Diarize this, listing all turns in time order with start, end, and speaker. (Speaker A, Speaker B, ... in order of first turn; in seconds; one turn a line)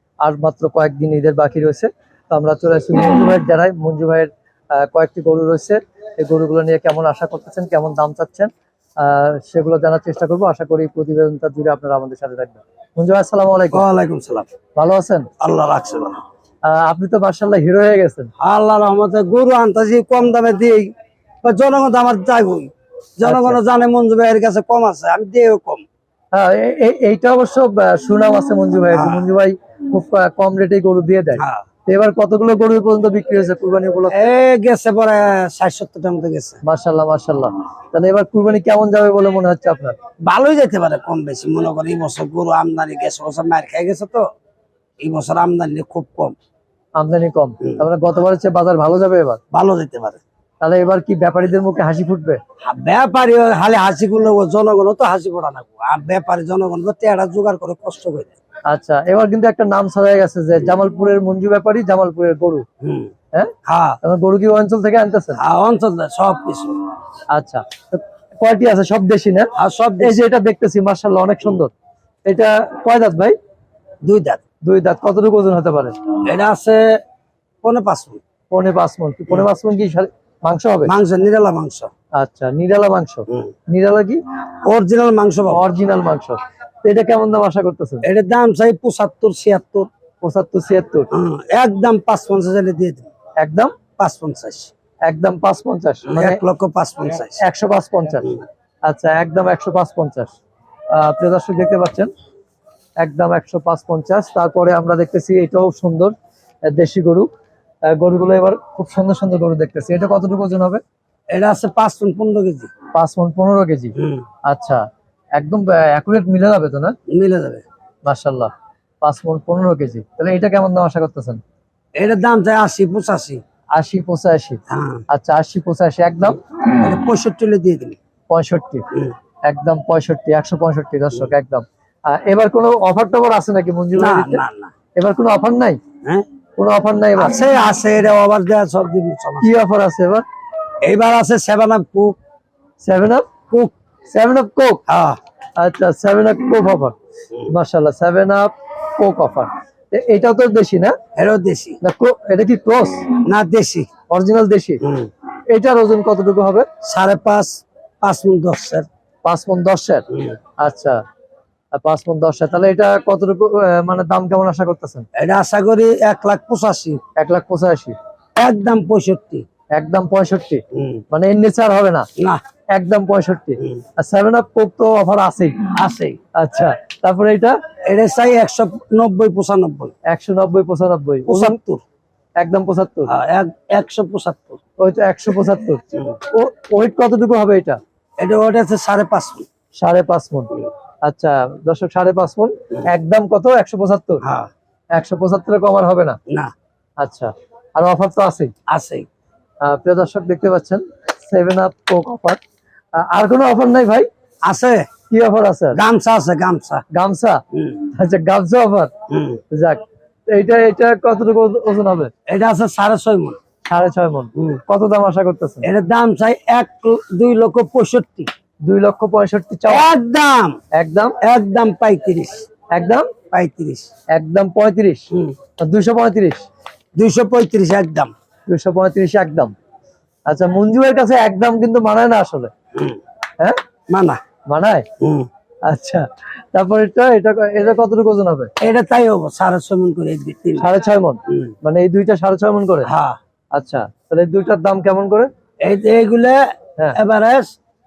Speaker A: 0.2-13.8
Speaker B: 13.7-14.5
Speaker A: 14.8-15.3
Speaker B: 15.4-16.2
Speaker A: 16.6-18.3
Speaker B: 18.4-20.9
Speaker B: 21.4-25.8
Speaker A: 23.2-23.6
Speaker A: 26.3-34.2
Speaker B: 28.9-29.2
Speaker B: 31.4-31.6
Speaker B: 34.1-36.6
Speaker A: 36.6-40.0
Speaker B: 40.3-44.3
Speaker B: 45.0-46.4
Speaker A: 47.0-49.4
Speaker B: 49.5-50.2
Speaker A: 50.6-52.4
Speaker B: 52.6-58.4
Speaker A: 58.7-62.6
Speaker B: 62.8-63.1
Speaker A: 63.3-65.4
Speaker B: 63.7-64.0
Speaker B: 65.4-66.8
Speaker A: 67.3-71.7
Speaker B: 69.6-70.2
Speaker A: 72.3-73.3
Speaker B: 74.0-74.4
Speaker A: 74.6-76.0
Speaker B: 76.2-77.0
Speaker B: 77.6-78.2
Speaker A: 78.5-80.9
Speaker B: 80.9-81.9
Speaker A: 82.2-84.2
Speaker B: 84.7-85.6
Speaker A: 85.5-88.0
Speaker B: 88.0-89.9
Speaker A: 90.2-91.1
Speaker B: 91.1-93.1
Speaker A: 93.4-93.8
Speaker B: 94.0-94.7
Speaker A: 95.1-96.4
Speaker B: 96.1-97.4
Speaker A: 97.4-100.3
Speaker A: 100.9-102.1
Speaker A: 103.0-106.1
Speaker A: 106.7-107.3
Speaker A: 107.9-110.8
Speaker B: 111.3-112.7
Speaker A: 112.9-114.0
Speaker B: 114.0-114.2
Speaker A: 114.5-114.8
Speaker A: 115.4-117.0
Speaker B: 117.1-117.6
Speaker A: 118.0-121.4
Speaker B: 122.0-123.4
Speaker A: 123.8-126.4
Speaker B: 124.7-125.0
Speaker B: 126.8-128.0
Speaker A: 128.3-128.8
Speaker A: 129.5-134.4
Speaker B: 133.9-134.7
Speaker A: 135.0-135.8
Speaker A: 136.6-137.4
Speaker B: 137.2-139.6
Speaker A: 139.4-140.2
Speaker B: 140.8-142.2
Speaker A: 142.8-143.3
Speaker A: 144.1-144.8
Speaker B: 144.9-145.2
Speaker A: 145.6-146.9
Speaker A: 147.5-150.9
Speaker B: 151.2-151.8
Speaker A: 151.8-153.1
Speaker B: 153.2-153.9
Speaker A: 154.1-154.8
Speaker B: 154.8-155.1
Speaker A: 155.5-156.7
Speaker B: 156.8-158.9
Speaker A: 159.2-160.1
Speaker B: 160.1-160.4
Speaker A: 160.6-161.0
Speaker A: 161.7-165.1
Speaker B: 165.2-167.0
Speaker A: 167.2-167.9
Speaker B: 168.4-169.4
Speaker A: 169.7-172.1
Speaker B: 170.7-171.0
Speaker A: 172.7-175.7
Speaker B: 175.7-176.2
Speaker A: 176.3-177.6
Speaker B: 177.9-179.9
Speaker A: 180.1-181.6
Speaker B: 181.3-181.8
Speaker A: 182.4-183.1
Speaker B: 183.1-184.6
Speaker A: 184.8-187.8
Speaker B: 185.9-186.2
Speaker B: 188.2-189.5
Speaker A: 189.8-194.2
Speaker B: 194.2-194.5
Speaker A: 194.9-196.2
Speaker A: 197.0-198.5
Speaker B: 198.7-199.1
Speaker A: 199.6-202.4
Speaker A: 203.0-204.1
Speaker B: 204.4-204.9
Speaker A: 205.1-205.8
Speaker B: 205.7-206.8
Speaker A: 206.9-208.9
Speaker B: 207.5-207.8
Speaker B: 209.1-209.4
Speaker A: 209.5-212.1
Speaker B: 212.3-213.4
Speaker A: 213.7-215.7
Speaker B: 214.4-214.6
Speaker B: 215.6-218.3
Speaker A: 218.6-219.9
Speaker B: 219.7-220.6
Speaker A: 220.7-221.2
Speaker B: 221.2-222.5
Speaker A: 222.7-223.1
Speaker B: 223.3-223.9
Speaker A: 224.1-225.1
Speaker B: 225.1-225.4
Speaker A: 225.6-226.4
Speaker B: 227.0-228.1
Speaker A: 228.5-229.5
Speaker A: 230.3-232.5
Speaker B: 232.7-233.0
Speaker B: 233.9-234.2
Speaker A: 234.5-234.9
Speaker B: 235.0-235.3
Speaker A: 235.7-238.5
Speaker B: 238.6-240.7
Speaker A: 240.6-242.9
Speaker B: 241.3-241.5
Speaker B: 242.9-243.2
Speaker A: 243.5-245.3
Speaker B: 245.6-247.6